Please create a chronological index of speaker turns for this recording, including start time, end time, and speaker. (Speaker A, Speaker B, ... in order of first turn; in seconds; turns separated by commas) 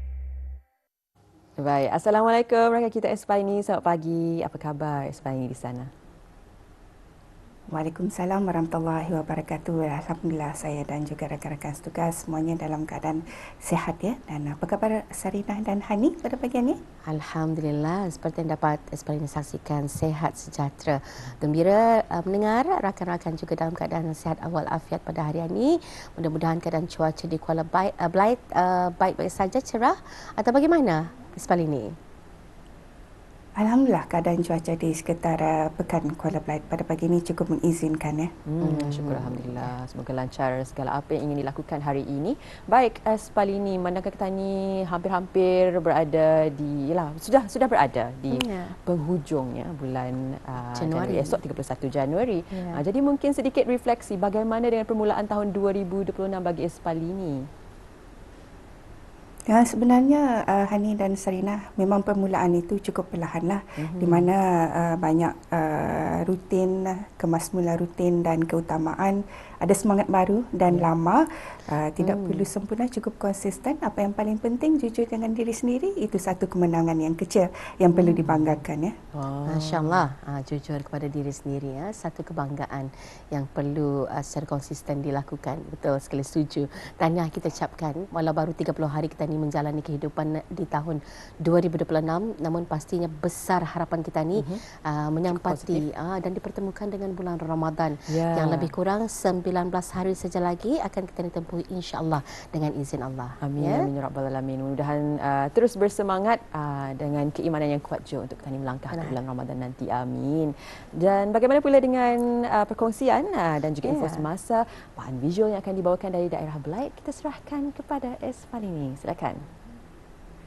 Speaker A: 1.6-5.9, Speaker B: 7.7-16.8, Speaker C: 17.1-32.0, Speaker B: 33.6-38.3, Speaker A: 38.5-57.5, Speaker C: 38.6-39.6, Speaker C: 48.3-48.8, Speaker C: 50.8-51.4, Speaker C: 52.5-52.8, Speaker B: 59.5-78.9, Speaker A: 63.8-64.3, Speaker C: 72.0-72.5, Speaker C: 77.9-78.4, Speaker C: 79.2-103.9, Speaker A: 79.5-80.0, Speaker A: 95.3-95.8, Speaker A: 98.1-98.7, Speaker A: 103.4-119.4, Speaker C: 108.9-109.2, Speaker C: 113.8-114.3